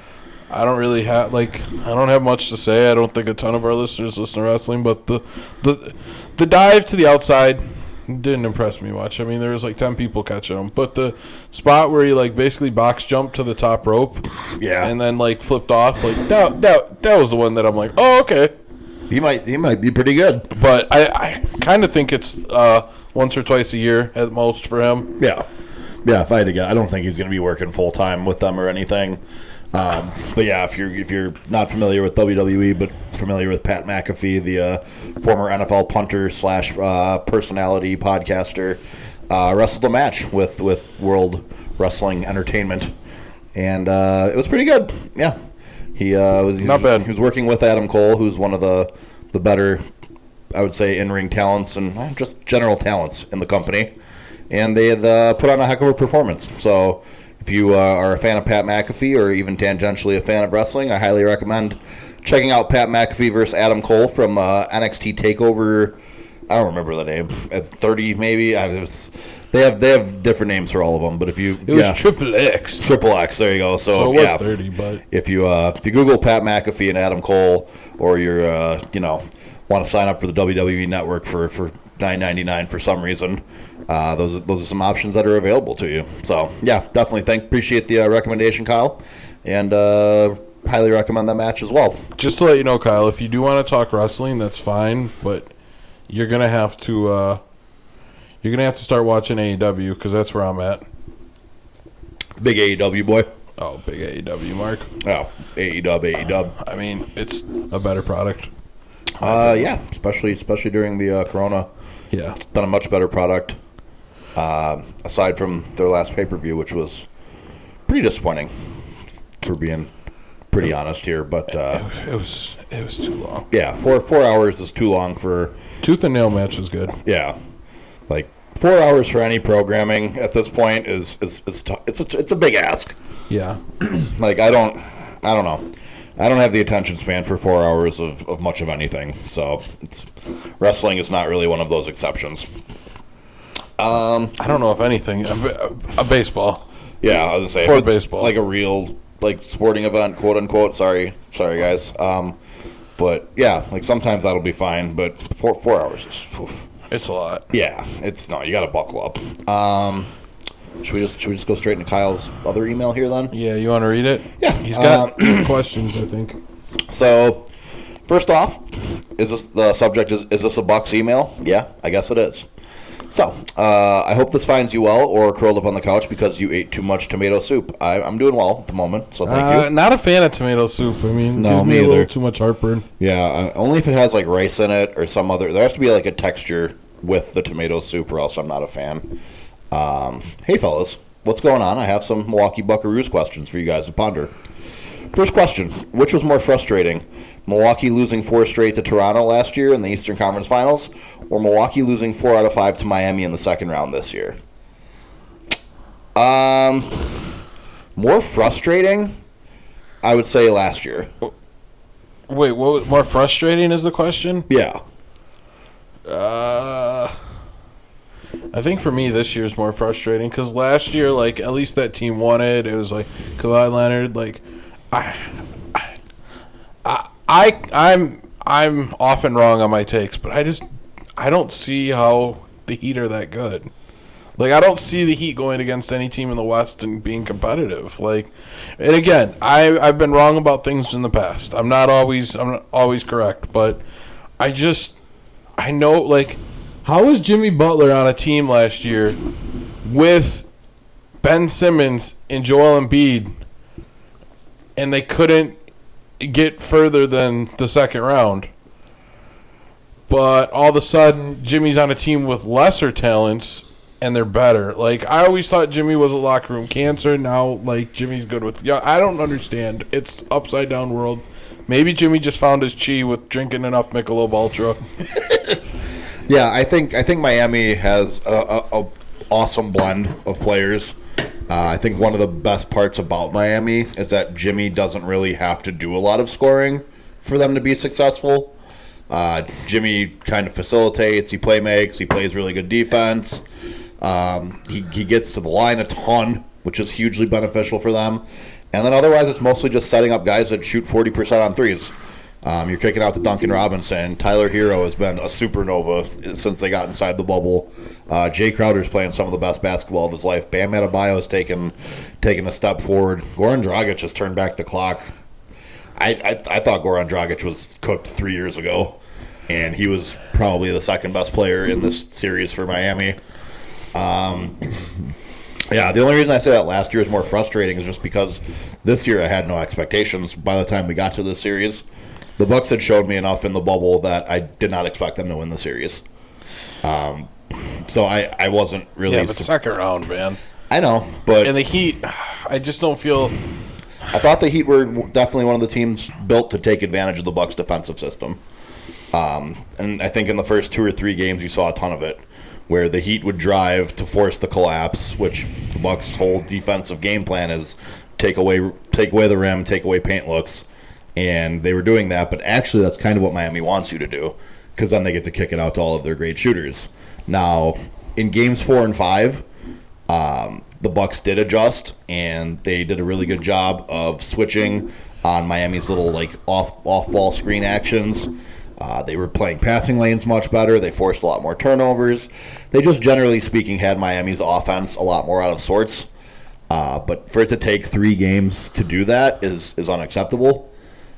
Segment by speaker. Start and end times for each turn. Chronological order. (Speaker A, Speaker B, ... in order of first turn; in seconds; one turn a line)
Speaker A: 0.5-14.2
Speaker B: 14.6-14.9
Speaker A: 14.8-18.5
Speaker B: 19.1-20.5
Speaker A: 20.5-25.1
Speaker B: 25.2-25.4
Speaker B: 26.0-29.2
Speaker B: 29.7-42.9
Speaker B: 43.5-45.4
Speaker B: 46.0-49.8
Speaker A: 46.6-47.1
Speaker B: 50.5-53.9
Speaker B: 54.5-72.0
Speaker A: 71.7-72.9
Speaker B: 72.8-74.4
Speaker A: 73.9-75.0
Speaker B: 75.1-92.0
Speaker A: 92.2-95.5
Speaker A: 96.1-97.4
Speaker A: 98.4-100.8
Speaker B: 102.4-103.3
Speaker A: 103.6-104.9
Speaker B: 105.0-106.5
Speaker A: 106.6-108.5
Speaker B: 109.2-111.7
Speaker A: 109.2-109.7
Speaker A: 112.1-112.4
Speaker B: 112.4-113.6
Speaker B: 114.3-117.1
Speaker B: 117.8-118.5
Speaker B: 119.4-119.9
Speaker B: 120.5-121.8
Speaker A: 121.7-123.5
Speaker B: 123.5-125.6
Speaker A: 125.8-127.0
Speaker B: 126.9-127.3
Speaker B: 128.1-132.9
Speaker A: 133.3-133.6
Speaker B: 133.8-142.6
Speaker B: 143.8-144.3
Speaker A: 144.4-146.6
Speaker B: 147.0-152.4
Speaker A: 147.6-148.3
Speaker B: 153.0-156.7
Speaker A: 156.9-157.4
Speaker B: 157.5-160.1
Speaker B: 160.8-163.3
Speaker A: 163.3-166.4
Speaker B: 164.4-165.6
Speaker B: 166.9-167.5
Speaker B: 168.1-172.5
Speaker B: 173.1-179.7
Speaker A: 179.2-182.8
Speaker B: 181.3-182.1
Speaker B: 183.0-189.2
Speaker B: 189.7-194.3
Speaker B: 195.1-204.4
Speaker B: 206.1-207.3
Speaker B: 207.9-209.1
Speaker B: 210.0-211.1
Speaker A: 212.3-214.5
Speaker B: 214.5-214.8
Speaker A: 216.1-217.2
Speaker A: 218.5-225.9
Speaker A: 226.8-230.6
Speaker A: 231.2-233.7
Speaker A: 234.4-243.8
Speaker A: 244.4-244.9
Speaker A: 245.6-249.2
Speaker A: 249.8-250.4
Speaker A: 251.2-253.3
Speaker A: 254.8-255.6
Speaker A: 256.2-258.5
Speaker A: 260.1-274.8
Speaker B: 275.1-275.6
Speaker B: 276.3-280.9
Speaker B: 281.5-288.6
Speaker B: 289.1-293.4
Speaker B: 294.0-315.1
Speaker B: 316.0-323.2
Speaker B: 323.9-325.0
Speaker B: 325.7-331.8
Speaker B: 332.4-336.0
Speaker B: 336.8-339.5
Speaker A: 339.1-340.4
Speaker B: 340.7-341.6
Speaker A: 341.4-343.4
Speaker B: 344.1-348.4
Speaker B: 349.1-369.4
Speaker B: 370.1-386.1
Speaker B: 386.7-390.7